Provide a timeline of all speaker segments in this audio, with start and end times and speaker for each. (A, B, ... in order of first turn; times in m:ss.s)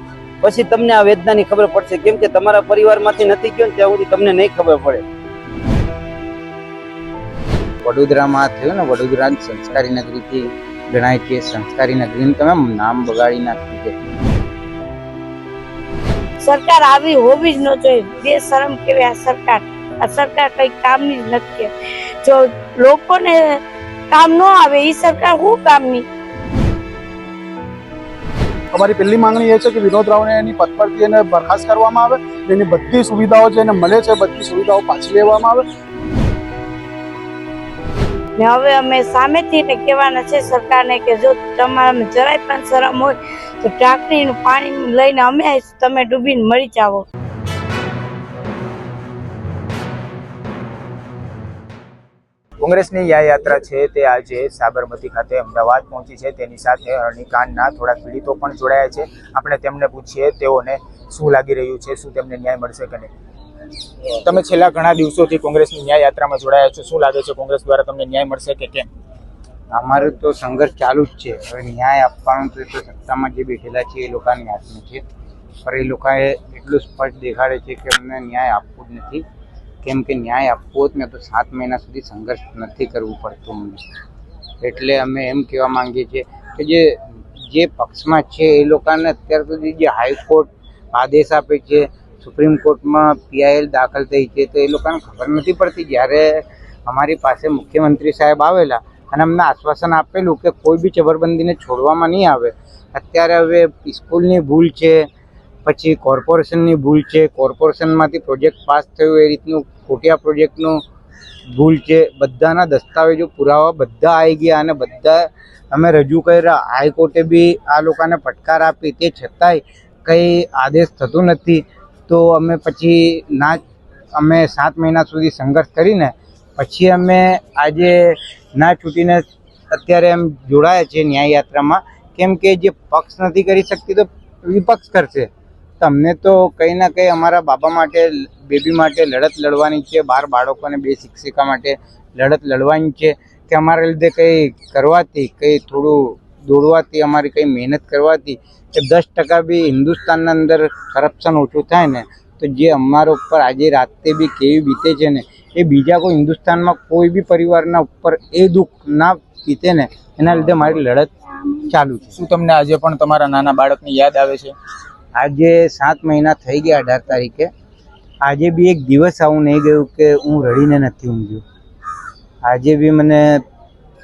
0:00.4-0:05.0 A
0:07.8-0:13.9 B
0:16.4-0:21.7 C
0:22.2-0:23.6 C
0:24.1-0:26.0 C
0:28.7-0:35.6 D
0:38.4-0:47.0 C
0:52.6-1:03.1 E
1:04.2-1:08.9 E
1:09.7-1:15.0 B
1:15.6-1:19.2 B
1:19.8-1:23.8 B
1:24.6-1:45.1 B
1:45.6-1:50.8 B
1:51.5-2:03.6 B
2:04.2-2:15.3 B
2:15.8-2:42.2 B
2:42.2-2:44.5 E
2:45.2-2:47.5 B
2:48.2-2:51.4 B
2:52.4-2:53.4 B